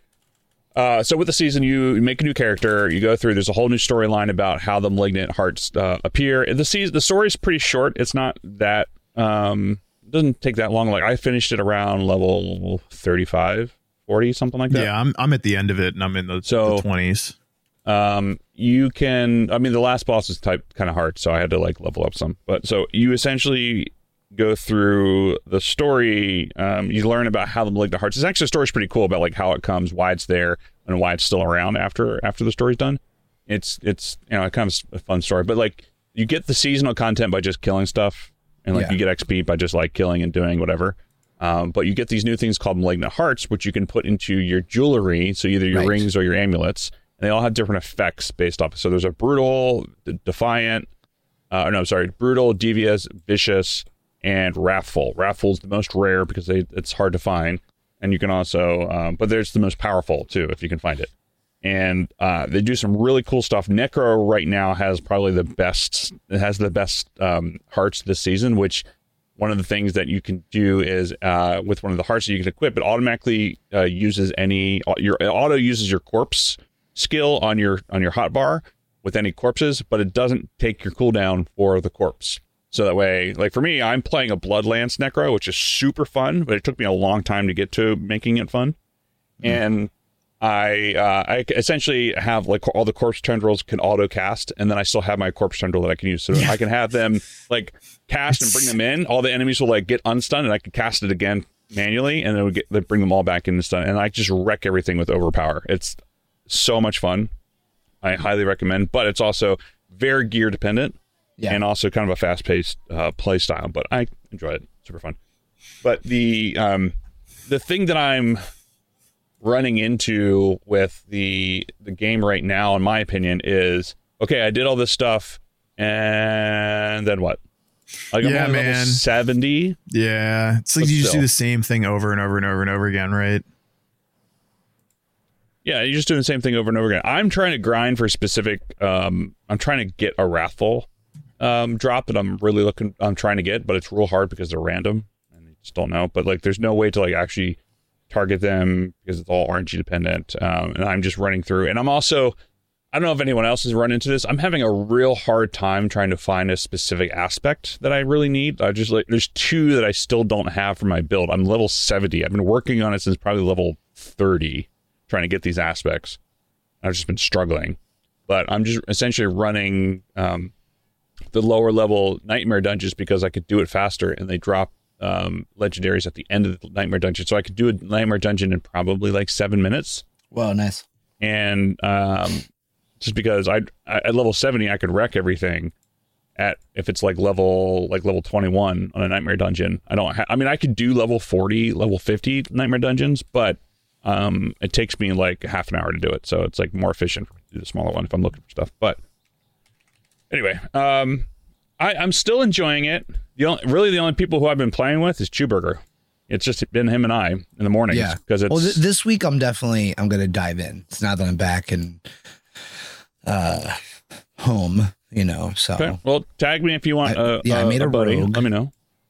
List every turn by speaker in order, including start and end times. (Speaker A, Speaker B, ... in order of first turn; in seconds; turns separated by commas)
Speaker A: 0.7-14.9, Speaker B: 14.7-17.3, Speaker A: 16.4-16.8, Speaker A: 17.9-50.9, Speaker C: 45.7-46.0, Speaker A: 51.5-61.1, Speaker A: 61.6-68.8, Speaker A: 69.4-88.8, Speaker A: 89.4-107.3, Speaker A: 108.0-111.0, Speaker A: 111.5-115.2, Speaker A: 115.8-116.9, Speaker A: 117.5-118.4, Speaker A: 119.4-127.4, Speaker A: 128.1-129.8, Speaker B: 128.2-129.0, Speaker B: 129.9-133.4, Speaker A: 130.8-131.2, Speaker A: 135.6-140.9, Speaker A: 141.4-147.6, Speaker A: 148.1-152.4, Speaker A: 152.9-166.2, Speaker A: 166.8-170.5, Speaker A: 171.3-180.0, Speaker C: 180.3-180.8, Speaker A: 181.2-182.4, Speaker A: 183.0-185.7, Speaker A: 186.4-199.0, Speaker A: 200.3-201.3, Speaker A: 201.8-208.8, Speaker C: 207.9-212.0, Speaker C: 213.2-213.8, Speaker C: 214.4-216.0, Speaker A: 215.8-218.7, Speaker C: 217.1-218.5